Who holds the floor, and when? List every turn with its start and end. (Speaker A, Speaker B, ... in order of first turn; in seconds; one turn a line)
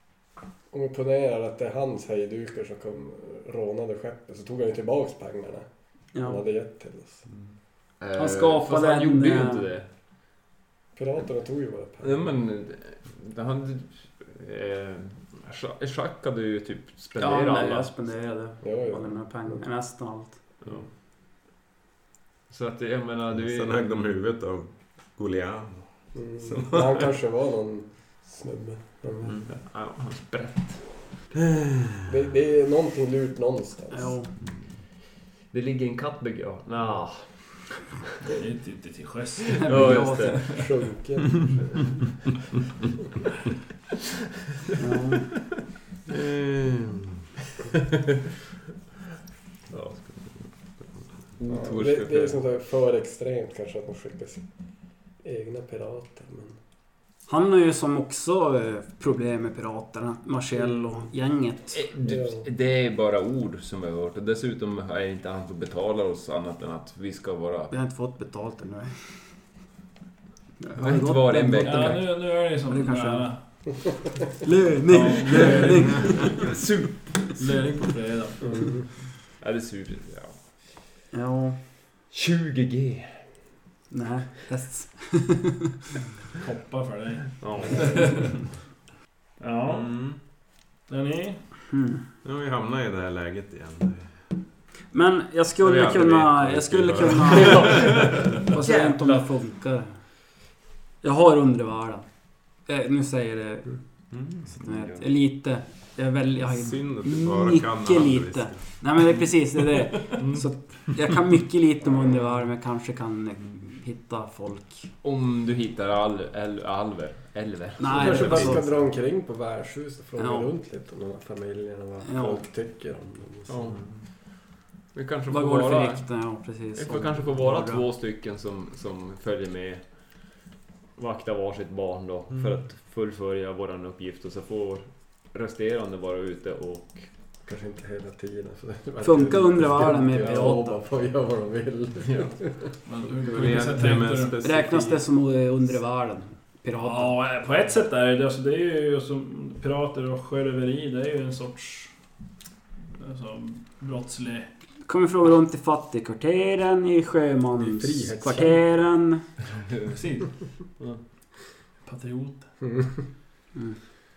Speaker A: 0.7-7.3
Speaker B: 6.1-6.4
Speaker C: 8.0-9.9
Speaker B: 8.1-9.7
Speaker A: 10.9-12.3
Speaker C: 12.0-18.0
Speaker B: 17.2-20.4
Speaker A: 18.6-19.6
Speaker C: 22.5-24.1
Speaker D: 23.3-27.1
Speaker A: 26.1-29.5
Speaker C: 29.5-31.2
Speaker A: 32.1-34.2
Speaker B: 33.9-34.3
Speaker C: 35.5-37.9
Speaker E: 38.3-39.7
Speaker C: 39.5-41.5
Speaker B: 39.6-40.6
Speaker A: 40.4-42.0
Speaker B: 44.8-45.4
Speaker D: 46.1-47.2
Speaker C: 49.7-50.0
Speaker D: 50.0-51.0
Speaker C: 51.4-52.4
Speaker A: 51.5-56.6
Speaker B: 57.3-61.8
Speaker C: 61.7-67.7
Speaker A: 62.0-62.5
Speaker B: 67.7-69.3
Speaker B: 70.6-73.6
Speaker C: 70.8-72.1
Speaker E: 71.6-73.4
Speaker B: 74.4-76.5
Speaker E: 74.9-76.3
Speaker C: 75.4-77.5
Speaker E: 77.4-78.6
Speaker A: 78.5-78.8
Speaker C: 79.4-80.6
Speaker B: 81.1-81.6
Speaker C: 82.1-83.3
Speaker B: 83.9-85.8
Speaker E: 86.4-88.1
Speaker C: 87.4-88.4
Speaker E: 89.4-89.9
Speaker D: 89.7-90.2
Speaker E: 90.9-91.4
Speaker B: 91.7-92.0
Speaker D: 92.2-94.2
Speaker B: 94.9-100.0
Speaker D: 95.6-98.1
Speaker C: 97.5-99.3
Speaker B: 101.0-102.1
Speaker B: 102.6-103.8
Speaker B: 104.4-114.9
Speaker C: 104.5-105.1
Speaker D: 106.5-108.8
Speaker C: 110.2-110.5
Speaker C: 115.0-118.8
Speaker B: 117.8-118.6
Speaker A: 117.8-123.7
Speaker B: 120.2-120.5
Speaker B: 122.0-122.4
Speaker C: 123.5-123.9
Speaker C: 124.9-126.2
Speaker B: 125.3-127.8
Speaker C: 126.7-130.2
Speaker C: 131.0-137.1
Speaker A: 137.4-142.5
Speaker B: 139.0-140.8
Speaker C: 142.1-142.3
Speaker E: 142.9-144.3
Speaker D: 143.1-145.0
Speaker B: 144.4-147.1
Speaker E: 146.8-151.9
Speaker E: 153.0-154.5
Speaker B: 154.9-159.2
Speaker A: 157.6-158.6
Speaker C: 159.7-160.2
Speaker E: 160.0-160.3
Speaker E: 161.8-162.5
Speaker A: 162.6-163.0